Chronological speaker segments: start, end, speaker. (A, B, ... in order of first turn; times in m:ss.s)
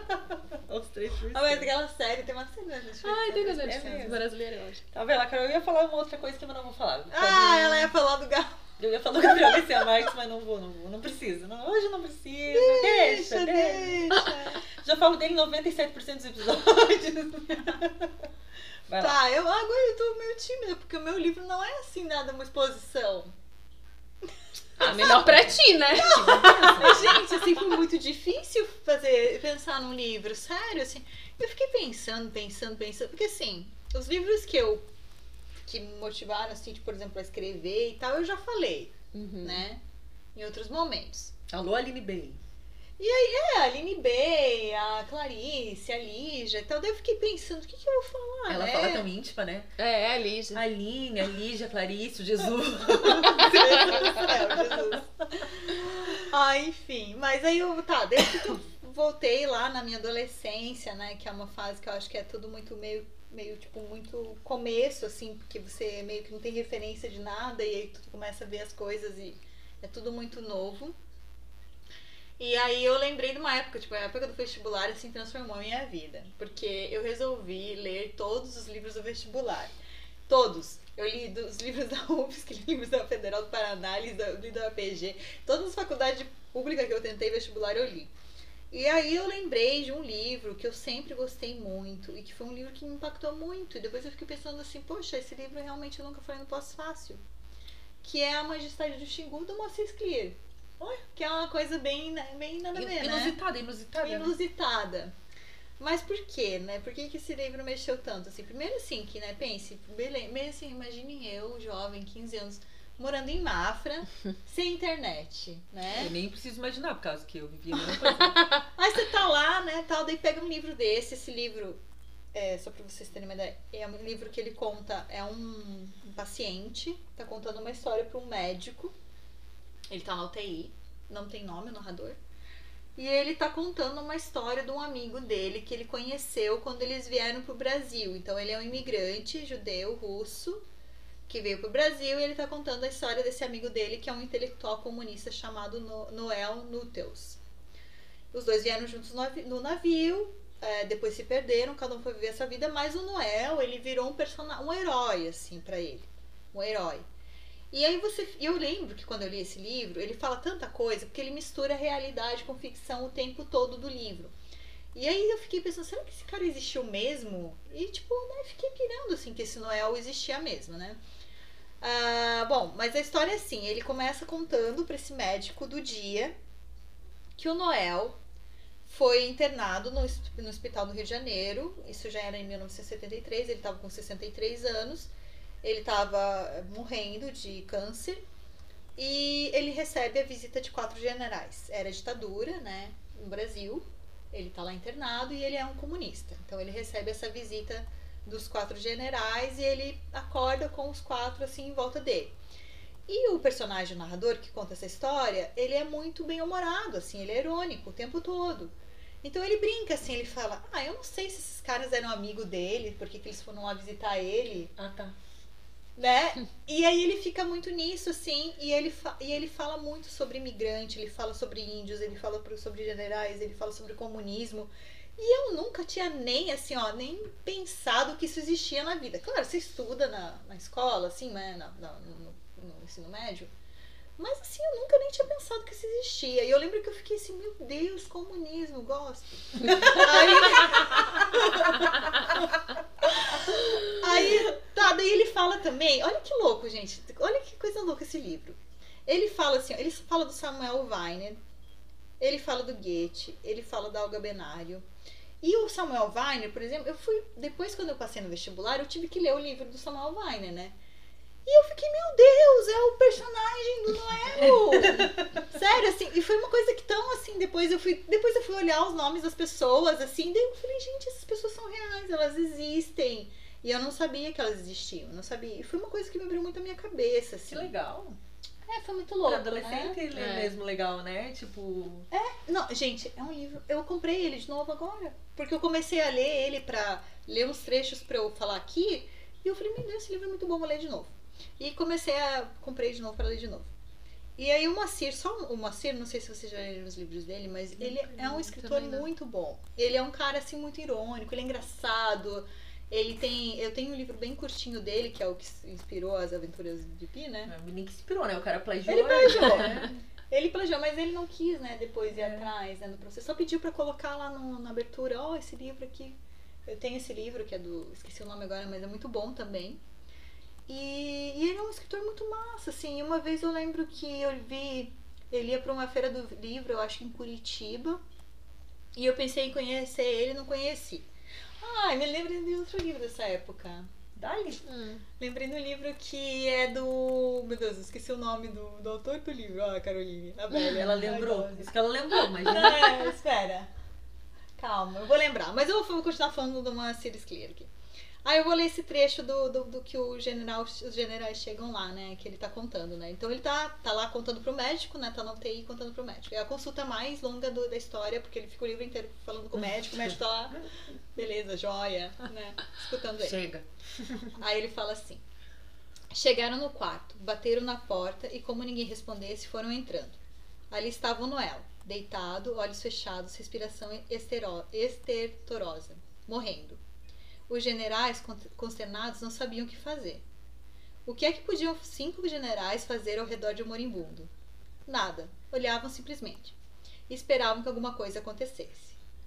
0:00.5-0:01.7 A
0:01.3-0:04.0 B
0:03.0-0:04.8 C
0:03.5-0:04.2 A
0:04.9-0:07.9 A
0:07.1-0:08.6 B
0:08.8-0:18.1 A
0:09.5-0:09.8 B
0:12.5-0:14.7 B
0:18.9-0:19.2 A
0:19.0-0:23.3 B
0:24.8-0:26.9 C
0:24.8-0:27.2 A
0:26.0-0:34.8 B
0:35.6-0:39.8 B
0:39.1-0:39.6 C
0:40.3-0:41.3 B
0:41.5-0:42.4 A
0:43.0-0:49.1 B
0:48.5-0:49.7 A
0:49.8-0:50.6 C
0:50.5-0:54.4 A
0:53.2-1:11.0 B
1:12.4-1:19.7 B
1:20.3-1:28.1 B
1:28.7-1:37.2 B
1:38.0-1:40.4 B
1:41.1-1:43.4 B
1:42.7-1:44.4 A
1:44.0-1:45.1 B
1:45.8-1:56.1 B
1:55.9-1:58.5 A
1:58.3-1:58.6 C
1:58.8-2:01.8 B
2:02.3-2:08.9 B
2:09.9-2:12.2 B
2:13.0-2:20.6 B
2:21.3-2:27.4 B
2:28.3-2:37.0 B
2:37.7-2:44.3 B
2:44.9-2:51.0 B
2:51.8-2:56.3 B
2:57.4-2:58.2 B
2:58.8-3:05.1 B
3:05.6-3:08.2 B
3:09.0-3:22.3 B
3:23.1-3:34.7 B
3:34.8-3:35.1 A
3:36.0-3:53.5 B
3:54.2-4:02.4 B
3:59.6-4:01.2 A
4:03.0-4:11.4 B
4:12.2-4:14.8 B
4:15.4-4:20.7 B
4:21.4-4:37.7 B
4:24.8-4:25.1 A
4:37.5-4:38.2 A
4:38.6-4:40.0 B
4:39.2-4:42.1 A
4:40.1-4:40.5 C
4:42.1-4:53.7 B
4:54.4-5:07.5 B
4:57.9-4:59.1 C
5:07.5-5:09.9 A
5:08.8-5:19.8 B
5:12.1-5:12.5 A
5:20.7-5:28.0 B
5:28.9-5:31.1 B
5:31.6-5:33.9 B
5:34.2-5:34.6 A
5:34.6-5:35.0 C
5:35.2-5:41.7 B
5:40.7-5:43.1 A
5:42.4-5:43.7 B
5:44.6-5:47.7 B
5:48.2-6:03.4 B
6:03.2-6:04.3 A
6:04.4-6:05.2 B
6:06.1-6:10.2 B
6:10.7-6:16.8 B
6:17.5-6:20.2 B
6:21.0-6:24.3 B
6:24.8-6:26.5 B
6:27.1-6:29.0 B